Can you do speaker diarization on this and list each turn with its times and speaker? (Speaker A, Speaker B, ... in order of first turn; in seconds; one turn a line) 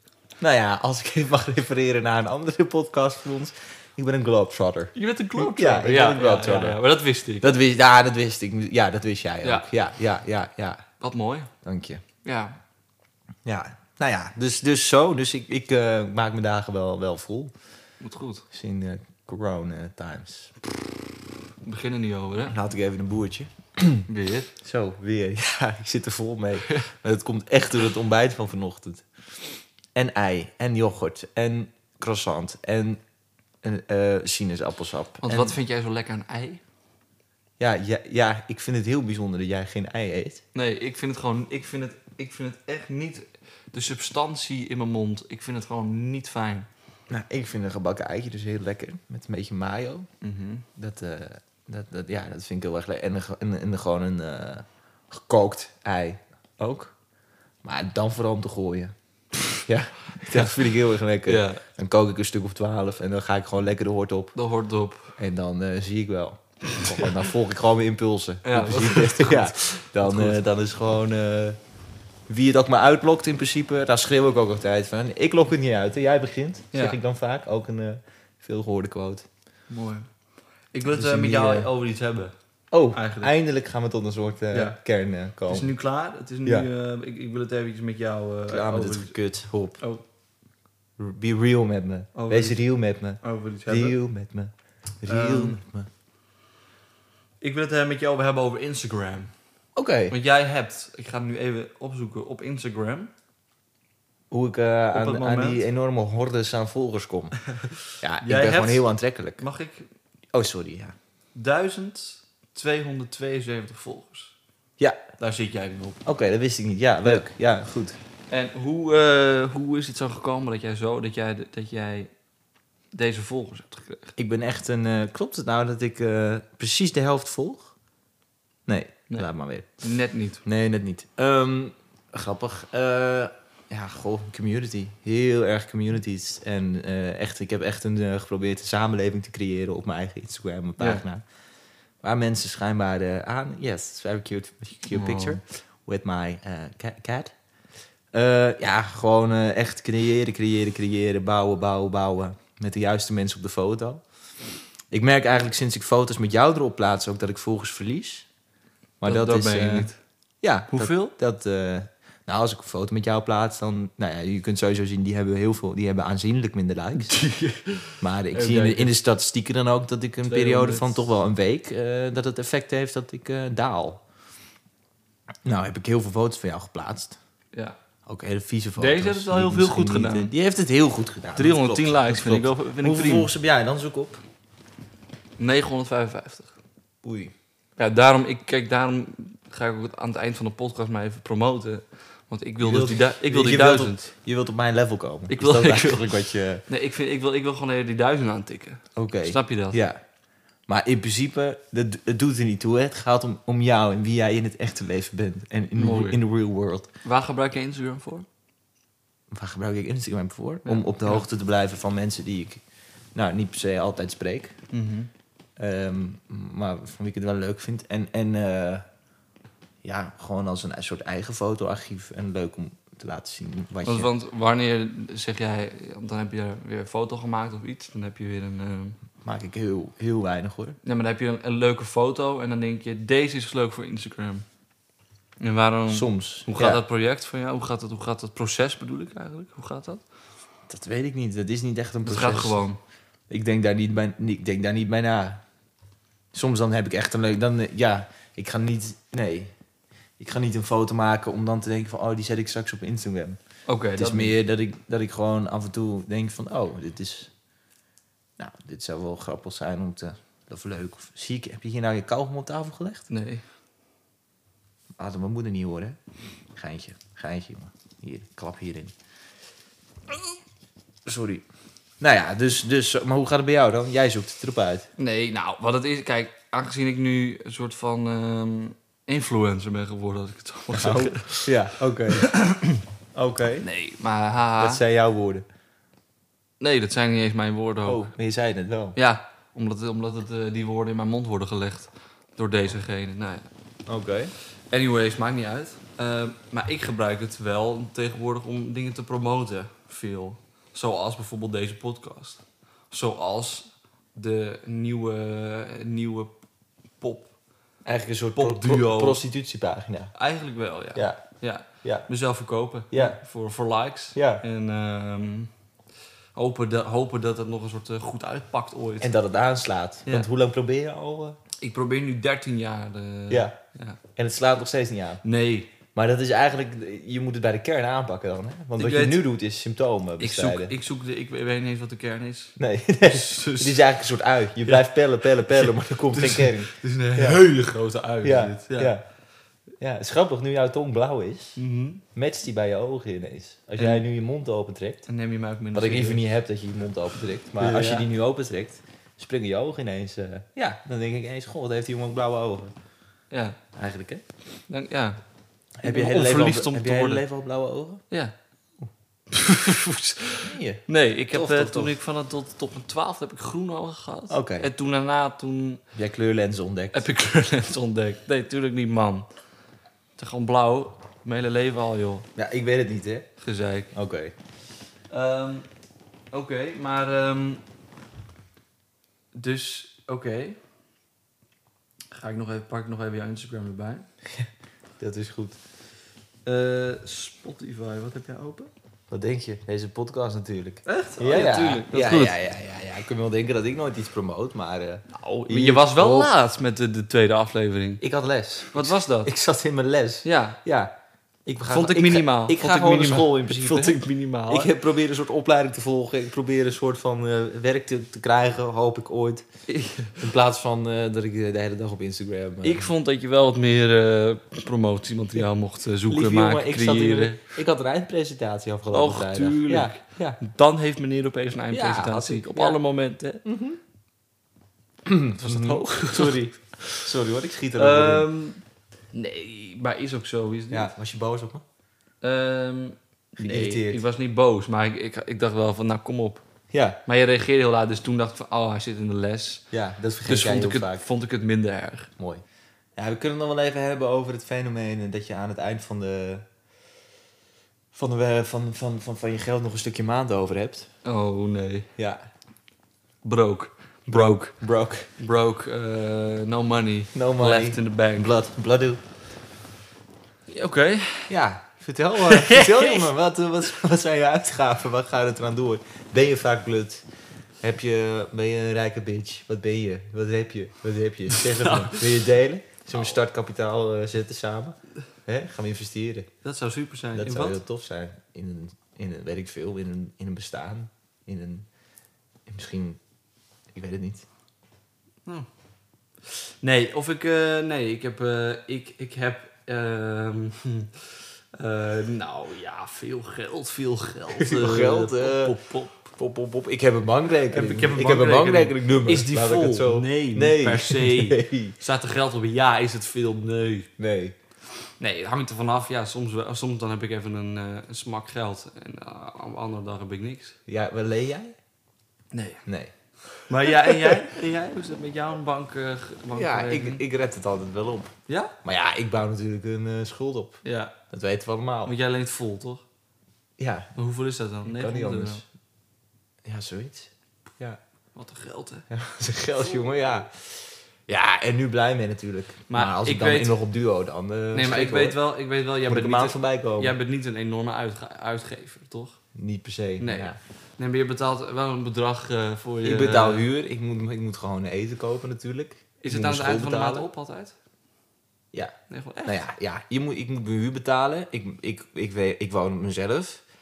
Speaker A: 0.4-6.8
Speaker B: 4.9-7.5
Speaker A: 7.4-10.8
Speaker B: 9.4-9.7
Speaker B: 11.0-11.5
Speaker A: 11.6-12.0
Speaker B: 12.2-12.6
Speaker A: 13.4-17.5
Speaker B: 18.0-18.4
Speaker A: 18.5-20.5
Speaker B: 21.6-22.5
Speaker A: 22.5-24.1
Speaker B: 24.1-24.5
Speaker A: 24.6-29.0
Speaker A: 29.9-33.0
Speaker A: 33.6-35.5
Speaker B: 35.2-36.6
Speaker A: 37.6-40.4
Speaker B: 40.5-46.7
Speaker A: 47.1-50.1
Speaker B: 50.2-50.6
Speaker A: 50.8-56.9
Speaker A: 57.6-58.9
Speaker A: 59.6-64.3
Speaker B: 60.2-60.5
Speaker B: 61.2-61.6
Speaker B: 64.3-65.1
Speaker A: 65.2-71.6
Speaker B: 66.8-67.1
Speaker B: 68.4-70.4
Speaker A: 72.3-79.2
Speaker B: 76.7-77.0
Speaker B: 79.7-80.1
Speaker B: 80.7-82.3
Speaker A: 80.9-81.7
Speaker A: 82.7-85.7
Speaker B: 82.9-83.3
Speaker B: 84.5-84.8
Speaker B: 85.5-89.2
Speaker A: 88.5-89.8
Speaker A: 91.0-95.9
Speaker B: 92.1-92.6
Speaker B: 93.2-94.0
Speaker B: 95.0-95.6
Speaker B: 97.4-99.3
Speaker A: 99.7-100.1
Speaker B: 100.1-103.1
Speaker A: 104.3-107.4
Speaker B: 104.9-105.6
Speaker B: 107.5-109.9
Speaker A: 108.0-109.4
Speaker A: 110.3-111.0
Speaker B: 111.3-114.3
Speaker B: 115.2-116.0
Speaker A: 116.0-118.0
Speaker B: 118.3-122.1
Speaker B: 122.9-124.1
Speaker A: 124.2-127.7
Speaker A: 128.7-129.8
Speaker B: 129.8-130.4
Speaker A: 130.4-141.2
Speaker B: 140.8-141.0
Speaker A: 142.0-147.3
Speaker B: 144.9-145.4
Speaker A: 148.1-154.0
Speaker A: 154.9-158.3
Speaker A: 159.0-159.9
Speaker B: 159.0-160.0
Speaker A: 160.4-167.2
Speaker B: 160.7-161.1
Speaker B: 167.0-168.9
Speaker A: 168.0-174.0
Speaker B: 170.2-171.0
Speaker A: 175.4-177.2
Speaker B: 177.5-177.8
Speaker A: 178.1-184.2
Speaker B: 178.8-180.3
Speaker B: 181.3-183.3
Speaker B: 185.4-186.5
Speaker A: 187.0-187.3
Speaker B: 187.8-194.0
Speaker A: 192.6-196.6
Speaker B: 195.3-196.1
Speaker B: 196.7-199.8
Speaker A: 198.9-200.0
Speaker A: 200.7-206.9
Speaker B: 205.7-206.2
Speaker B: 207.0-208.3
Speaker A: 209.3-212.6
Speaker B: 210.6-211.2
Speaker A: 213.1-214.6
Speaker B: 214.7-215.1
Speaker A: 215.6-218.8
Speaker A: 219.8-224.1
Speaker B: 223.8-229.0
Speaker A: 229.2-230.8
Speaker B: 230.8-234.4
Speaker B: 235.4-240.0
Speaker A: 235.9-236.8
Speaker A: 240.7-242.6
Speaker B: 242.0-242.8
Speaker A: 243.3-245.4
Speaker A: 246.3-249.5
Speaker A: 250.2-253.4
Speaker B: 253.7-254.3
Speaker A: 253.9-257.3
Speaker A: 258.4-263.1
Speaker B: 263.1-263.4
Speaker A: 265.0-266.0
Speaker A: 266.5-268.9
Speaker A: 271.0-271.4
Speaker A: 272.0-274.9
Speaker B: 275.0-281.5
Speaker A: 280.7-282.4
Speaker B: 282.1-282.8
Speaker A: 283.1-283.6
Speaker B: 283.6-284.8
Speaker A: 284.6-285.4
Speaker B: 286.6-288.0
Speaker A: 287.8-288.9
Speaker B: 288.9-293.5
Speaker A: 293.9-294.3
Speaker B: 294.7-306.3
Speaker B: 307.0-307.3
Speaker A: 307.8-310.1
Speaker B: 308.3-309.2
Speaker B: 310.1-315.5
Speaker A: 310.9-311.2
Speaker A: 311.8-312.1
Speaker A: 312.9-313.2
Speaker A: 314.1-314.4
Speaker B: 316.3-319.1
Speaker A: 319.0-321.4
Speaker B: 321.6-324.0
Speaker A: 323.3-323.6
Speaker A: 324.1-325.2
Speaker B: 325.2-325.7
Speaker A: 325.9-330.7
Speaker B: 328.8-329.2
Speaker B: 330.2-333.8
Speaker A: 332.6-337.4
Speaker B: 334.6-338.9
Speaker A: 338.2-339.0
Speaker A: 339.8-341.6
Speaker B: 341.6-342.0
Speaker A: 342.1-345.1
Speaker B: 343.8-344.0
Speaker B: 345.1-346.2
Speaker A: 345.7-352.7
Speaker B: 347.6-348.1
Speaker B: 353.3-353.6
Speaker A: 353.7-354.2
Speaker B: 354.7-355.2
Speaker A: 355.8-358.0
Speaker B: 355.8-357.2
Speaker B: 359.3-365.8
Speaker A: 360.4-361.9
Speaker A: 364.3-364.7
Speaker A: 365.9-367.1
Speaker B: 366.9-369.3
Speaker B: 370.2-372.3
Speaker A: 372.4-373.3
Speaker B: 373.4-373.9
Speaker A: 373.9-374.3
Speaker B: 375.1-375.6
Speaker B: 376.3-377.6
Speaker B: 379.3-380.6
Speaker B: 382.1-384.1
Speaker A: 385.0-385.6
Speaker B: 386.4-388.7
Speaker A: 389.1-396.3
Speaker B: 390.9-392.4
Speaker B: 395.1-398.0
Speaker A: 398.0-400.9
Speaker B: 398.7-399.3
Speaker B: 400.2-400.6
Speaker A: 401.4-409.4
Speaker B: 401.6-404.7
Speaker B: 409.7-410.2
Speaker A: 410.2-412.9
Speaker B: 412.6-417.5
Speaker A: 416.1-420.4
Speaker B: 418.9-423.4
Speaker A: 421.7-422.8
Speaker A: 423.4-423.8
Speaker A: 425.0-428.3
Speaker B: 425.4-427.1
Speaker B: 427.8-428.6
Speaker B: 429.1-430.9
Speaker A: 430.7-431.6
Speaker B: 432.2-436.4
Speaker A: 433.4-434.0
Speaker A: 436.7-437.0
Speaker B: 437.1-439.6
Speaker A: 439.7-441.1
Speaker B: 440.2-442.1
Speaker A: 442.2-442.4
Speaker A: 442.9-446.4
Speaker A: 447.9-450.9
Speaker B: 451.0-451.9
Speaker A: 451.9-452.2
Speaker B: 453.2-454.6
Speaker A: 454.1-455.1
Speaker B: 455.2-458.3
Speaker A: 457.1-459.0
Speaker B: 460.5-461.3
Speaker A: 461.3-467.0
Speaker B: 462.2-463.1
Speaker A: 467.6-476.3
Speaker B: 471.3-472.1
Speaker B: 476.4-477.6
Speaker A: 477.1-481.7
Speaker A: 482.5-483.0
Speaker A: 483.7-484.2
Speaker B: 486.6-496.1
Speaker A: 494.4-495.6
Speaker A: 496.1-501.8
Speaker B: 497.5-503.9
Speaker A: 504.0-504.3
Speaker B: 505.0-510.6
Speaker A: 510.7-511.5
Speaker B: 512.3-512.6
Speaker A: 512.6-512.9
Speaker B: 513.4-517.0
Speaker A: 513.6-514.2
Speaker A: 516.3-518.1
Speaker B: 518.3-518.5
Speaker A: 518.6-521.9
Speaker B: 520.6-520.9
Speaker B: 521.8-522.8
Speaker A: 523.6-523.9
Speaker B: 524.0-525.4
Speaker A: 524.6-525.4
Speaker A: 526.4-527.8
Speaker B: 528.1-528.9
Speaker A: 528.9-535.2
Speaker B: 532.7-533.6
Speaker B: 534.5-539.2
Speaker A: 535.9-536.9
Speaker A: 539.3-540.4
Speaker B: 540.0-543.5
Speaker A: 542.8-547.1
Speaker B: 546.0-547.5
Speaker A: 548.5-553.4
Speaker B: 548.9-549.4